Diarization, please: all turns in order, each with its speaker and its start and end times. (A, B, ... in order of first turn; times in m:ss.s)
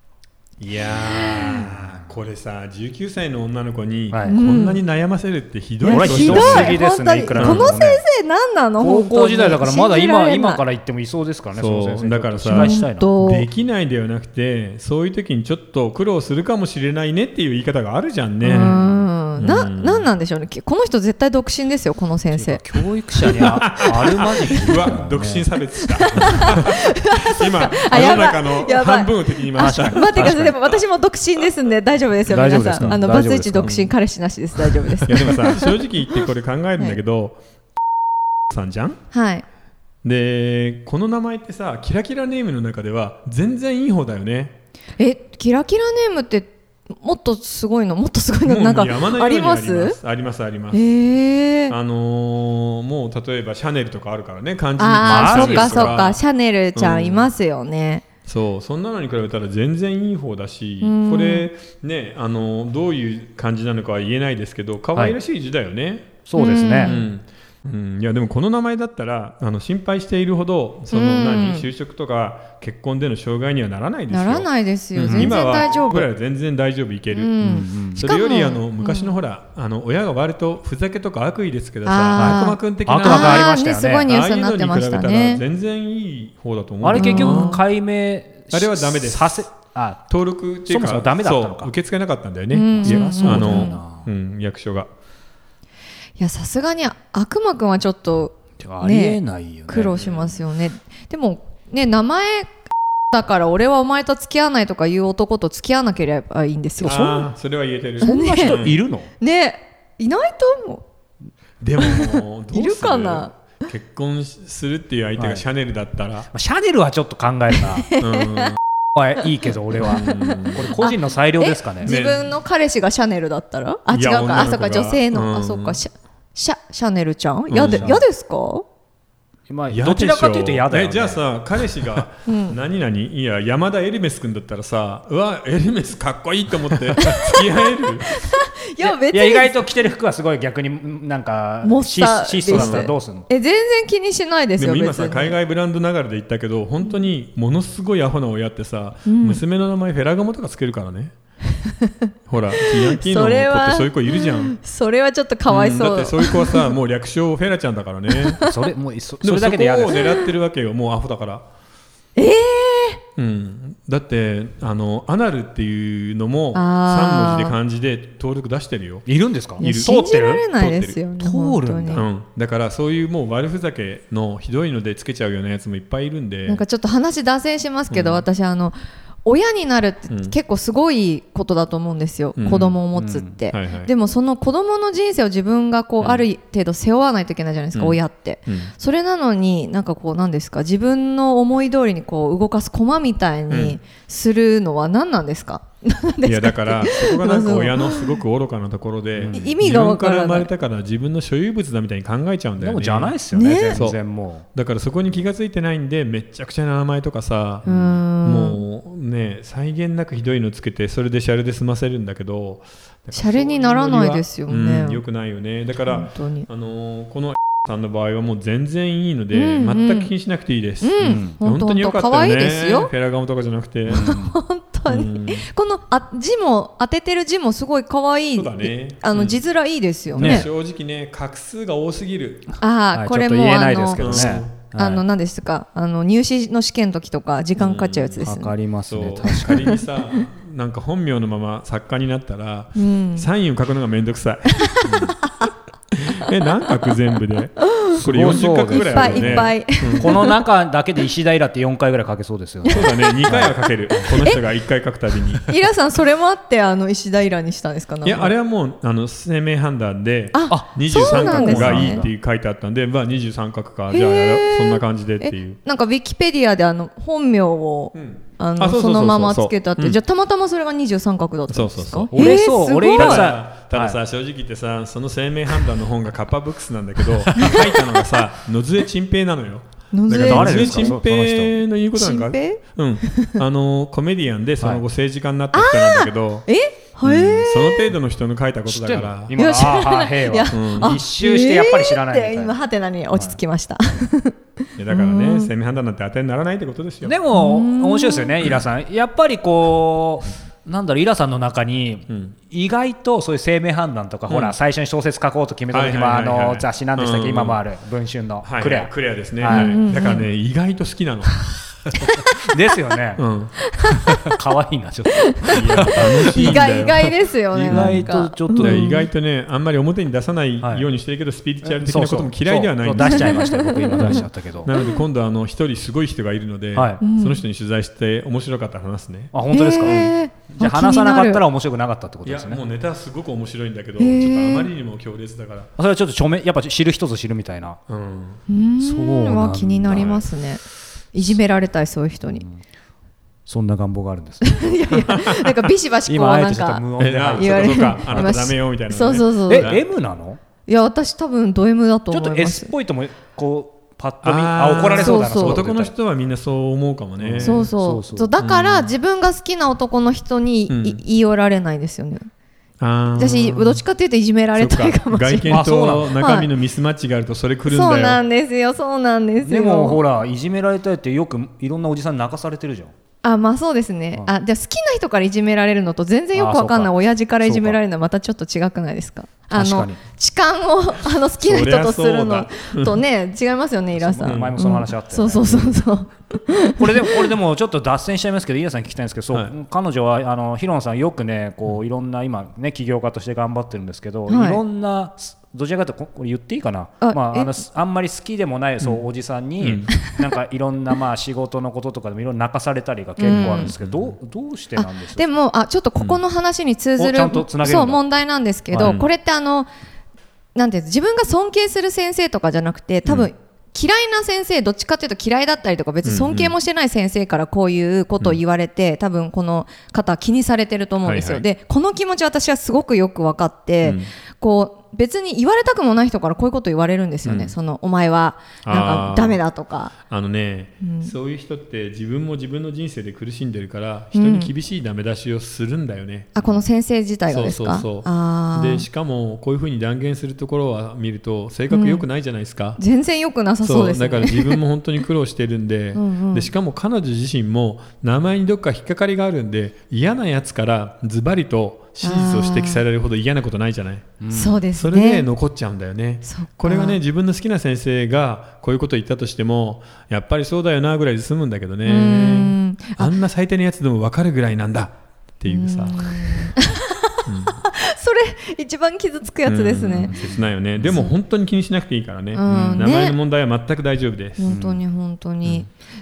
0:00.6-0:06.8 A
0:01.1-0:01.5 B
0:04.1-0:04.4 C
0:04.2-0:04.8 B
0:05.8-0:10.6 B
0:05.9-0:08.0 C
0:07.3-0:07.8 A
0:08.8-0:13.1 C
0:11.6-0:18.8 A
0:12.5-0:13.5 B
0:18.4-0:19.6 C
0:18.4-0:22.6 B
0:19.4-0:20.1 A
0:22.3-0:25.5 C
0:23.2-0:30.8 A
0:25.9-0:36.3 B
0:27.9-0:28.2 C
0:29.6-0:30.5 C
0:32.3-0:33.9 C
0:32.8-0:33.8 A
0:35.0-0:37.4 A
0:38.5-0:39.0 A
0:39.1-0:39.4 B
0:40.0-0:44.6 A
0:45.0-0:50.0 B
0:48.4-0:50.8 A
0:50.7-0:51.8 B
0:51.7-0:56.2 A
0:54.8-0:58.0 B
0:55.0-0:56.0 C
0:56.8-0:57.3 A
0:58.3-1:06.2 A
1:00.8-1:01.5 B
1:06.3-1:07.0 C
1:06.4-1:07.1 B
1:06.8-1:17.4 A
1:10.9-1:11.7 B
1:14.1-1:16.1 B
1:15.1-1:15.3 C
1:17.1-1:19.1 B
1:17.4-1:18.0 C
1:17.9-1:23.5 A
1:21.8-1:25.4 B
1:22.2-1:24.1 C
1:24.0-1:27.6 A
1:26.8-1:30.0 C
1:26.9-1:27.6 B
1:28.5-1:29.5 A
1:30.1-1:34.9 A
1:30.7-1:31.7 C
1:32.5-1:33.8 B
1:32.7-1:34.1 C
1:36.2-1:42.5 B
1:38.6-1:40.0 C
1:40.0-1:40.4 A
1:43.1-1:47.0 B
1:46.8-1:47.3 C
1:46.8-1:48.8 A
1:48.0-1:49.1 C
1:48.0-1:48.6 B
1:49.2-1:50.8 B
1:51.6-1:56.3 A
1:51.8-1:53.3 B
1:55.2-1:55.4 C
1:56.3-1:57.9 C
1:57.6-1:58.5 B
1:58.0-1:58.6 A
1:59.0-2:01.9 C
1:59.8-2:00.7 A
1:59.8-2:08.7 B
2:01.8-2:02.3 A
2:03.9-2:05.8 A
2:07.5-2:08.0 A
2:07.6-2:08.0 C
2:09.5-2:11.2 C
2:09.7-2:18.3 A
2:12.3-2:12.6 B
2:17.0-2:19.6 B
2:18.8-2:23.3 C
2:21.6-2:25.4 B
2:22.5-2:22.9 A
2:24.6-2:31.1 A
2:29.1-2:29.4 B
2:32.3-2:34.6 A
2:32.6-2:36.7 B
2:35.5-2:38.4 A
2:38.2-2:38.6 B
2:38.5-2:40.0 C
2:39.2-2:41.4 A
2:39.9-2:40.3 B
2:42.2-2:43.0 B
2:43.2-2:51.0 A
2:46.5-2:47.6 B
2:49.1-2:50.4 C
2:49.6-2:52.0 B
2:51.2-2:52.0 C
2:51.9-2:56.6 A
2:56.5-3:18.2 B
2:57.9-2:58.3 A
3:00.1-3:00.4 A
3:02.4-3:02.8 A
3:03.0-3:03.3 C
3:03.5-3:03.9 A
3:07.8-3:08.7 A
3:13.5-3:13.8 A
3:16.2-3:23.2 A
3:19.3-3:20.5 B
3:22.6-3:24.5 C
3:23.3-3:23.9 B
3:23.7-3:24.0 A
3:24.5-3:44.1 A
3:27.6-3:28.6 B
3:27.7-3:28.0 C
3:33.1-3:35.0 B
3:35.9-3:36.5 B
3:39.3-3:40.1 B
3:40.8-3:42.9 B
3:41.0-3:41.4 C
3:43.9-3:44.4 C
3:43.9-3:50.5 B
3:44.9-3:45.5 A
3:48.4-3:49.4 A
3:50.1-3:52.5 A
3:50.2-3:50.5 C
3:52.6-3:58.5 B
3:52.9-3:55.0 C
3:54.0-3:54.5 A
3:57.6-3:58.2 A
3:58.2-3:59.8 C
3:58.9-4:04.6 A
3:59.4-4:00.2 B
4:02.8-4:03.3 B
4:04.7-4:05.5 B
4:04.8-4:05.2 C
4:06.0-4:10.2 A
4:08.0-4:14.1 C
4:08.6-4:10.3 B
4:12.7-4:14.4 B
4:12.7-4:15.5 A
4:15.5-4:18.3 B
4:18.0-4:25.6 A
4:20.3-4:22.0 B
4:20.5-4:22.1 C
4:23.9-4:33.3 B
4:27.9-4:30.0 A
4:31.5-4:46.5 A
4:32.1-4:34.0 C
4:37.4-4:37.6 C
4:37.4-4:37.8 B
4:39.9-4:41.0 B
4:40.1-4:41.6 C
4:42.0-4:43.4 B
4:45.5-4:48.0 B
4:47.0-4:49.4 A
4:48.7-4:52.6 C
4:49.4-4:54.4 B
4:50.5-4:51.0 A
4:53.1-4:53.4 C
4:54.8-4:57.2 A
4:54.9-4:55.5 B
4:57.0-5:09.8 C
4:57.3-4:58.5 B
5:02.1-5:02.4 A
5:04.3-5:04.6 A
5:05.7-5:07.6 A
5:08.4-5:11.4 A
5:09.5-5:10.3 B
5:11.9-5:12.3 B
5:12.5-5:13.2 C
5:13.2-5:13.6 A
5:13.8-5:14.1 B
5:14.1-5:16.7 C
5:15.2-5:19.0 B
5:15.5-5:17.1 A
5:17.5-5:18.9 C
5:17.7-5:30.1 A
5:20.6-5:20.9 C
5:21.6-5:24.7 C
5:23.0-5:24.2 B
5:26.8-5:27.0 C
5:27.0-5:27.4 B
5:29.3-5:32.6 C
5:29.5-5:31.4 B
5:32.2-5:35.7 A
5:34.0-5:34.7 B
5:35.8-5:37.8 C
5:37.9-5:38.4 A
5:38.5-5:40.6 B
5:38.8-5:40.3 C
5:41.1-5:42.4 B
5:42.3-5:42.6 C
5:43.5-5:44.7 C
5:44.4-5:46.8 B
5:44.9-5:45.7 A
5:46.1-5:48.4 C
5:47.0-5:49.8 A
5:47.4-5:49.8 B
5:49.4-5:50.4 C
5:50.7-5:52.7 B
5:52.1-5:55.9 C
5:54.2-5:57.7 A
5:55.0-5:55.6 B
5:57.2-5:58.3 C
5:57.4-6:02.3 B
5:58.4-5:58.9 A
6:00.7-6:01.0 A
6:02.8-6:03.8 A
6:03.2-6:06.5 B
6:04.6-6:08.2 A
6:05.5-6:06.2 C
6:07.7-6:10.0 B
6:09.4-6:12.9 C
6:13.2-6:27.3 B
6:16.4-6:17.8 C
6:19.5-6:20.0 C
6:21.4-6:23.0 A
6:24.0-6:25.8 C
6:24.2-6:24.6 A
6:26.8-6:45.2 C
6:34.3-6:34.6 B
6:37.0-6:37.6 B
6:39.6-6:40.0 A
6:39.9-6:40.2 B
6:43.2-6:43.7 B
6:43.2-6:44.0 A
6:44.8-6:49.7 B
6:47.0-6:48.0 C
6:48.7-6:49.0 C
6:48.8-6:49.1 A
6:50.6-7:09.9 B
6:56.0-6:56.6 A
7:01.0-7:01.4 A
7:03.8-7:04.1 A
7:07.2-7:07.5 A
7:08.6-7:09.4 A
7:10.1-7:16.6 A
7:10.8-7:11.2 B
7:14.1-7:14.5 B
7:16.4-7:18.9 B
7:17.3-7:22.8 A
7:21.7-7:22.0 B
7:22.8-7:24.6 B
7:23.6-7:34.2 A
7:25.9-7:26.5 B
7:32.0-7:32.8 B
7:34.2-7:34.6 C
7:34.3-7:35.3 B
7:34.7-7:46.5 A
7:36.2-7:37.0 B
7:41.8-7:43.1 B
7:45.5-7:50.1 B
7:47.3-7:47.6 A
7:49.5-7:54.5 A
7:50.1-7:50.4 C
7:50.8-7:51.1 B
7:52.3-7:53.2 B
7:52.5-7:52.8 C
7:54.4-7:55.7 B
7:54.5-7:54.8 C